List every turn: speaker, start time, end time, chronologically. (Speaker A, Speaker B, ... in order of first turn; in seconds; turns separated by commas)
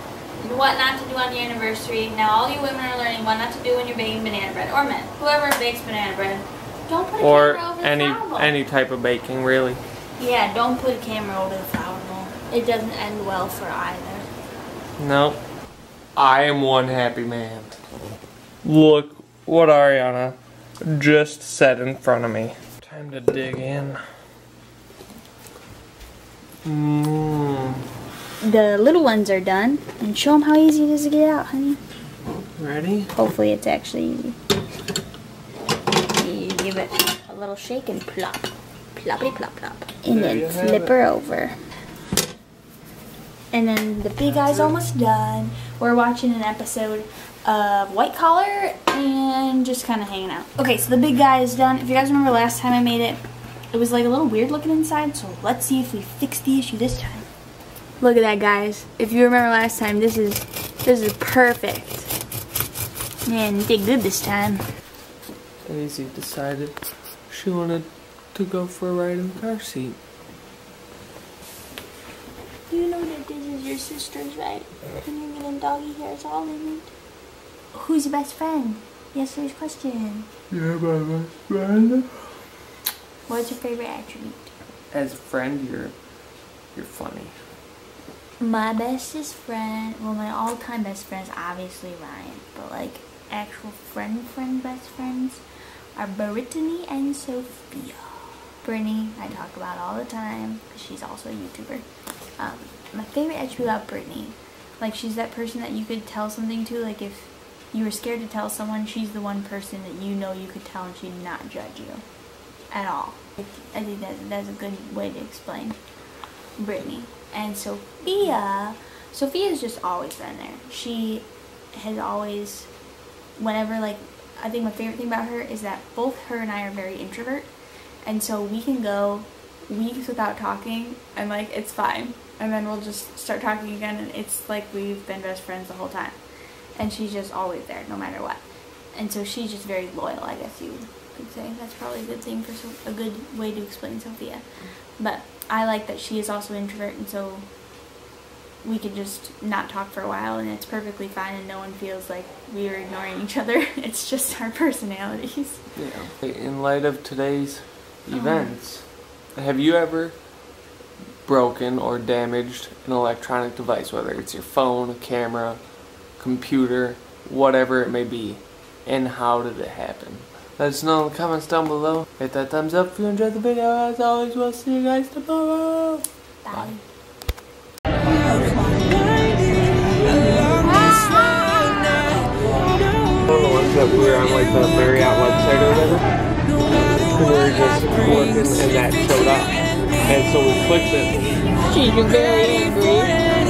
Speaker A: 0.4-8.5, Speaker B: 7.2-9.8, Speaker A: 10.2-14.3, Speaker B: 15.0-15.4, Speaker B: 16.1-17.8, Speaker B: 18.6-24.0, Speaker B: 26.6-27.8, Speaker A: 28.4-31.8, Speaker B: 32.6-33.1, Speaker A: 33.1-34.4, Speaker A: 36.1-41.6, Speaker B: 40.1-40.9, Speaker A: 43.5-57.3, Speaker B: 44.3-44.7, Speaker A: 58.0-62.1, Speaker A: 63.2-64.6, Speaker B: 65.6-70.0, Speaker A: 72.7-76.9, Speaker A: 77.7-80.3, Speaker B: 80.5-82.2, Speaker A: 83.3-84.5, Speaker B: 84.9-85.9, Speaker B: 86.7-87.3, Speaker A: 88.4-95.4, Speaker A: 96.0-98.1, Speaker A: 98.6-101.8, Speaker A: 102.4-112.0, Speaker A: 112.7-115.8, Speaker A: 116.5-122.7, Speaker A: 123.4-127.5, Speaker A: 128.0-136.2, Speaker A: 136.8-147.5, Speaker A: 148.6-155.7, Speaker B: 155.7-160.2, Speaker A: 158.1-158.6, Speaker B: 161.2-165.6, Speaker B: 166.2-176.7, Speaker A: 176.4-176.8, Speaker B: 180.1-180.6, Speaker B: 183.2-186.1, Speaker B: 187.1-191.4, Speaker A: 191.7-193.1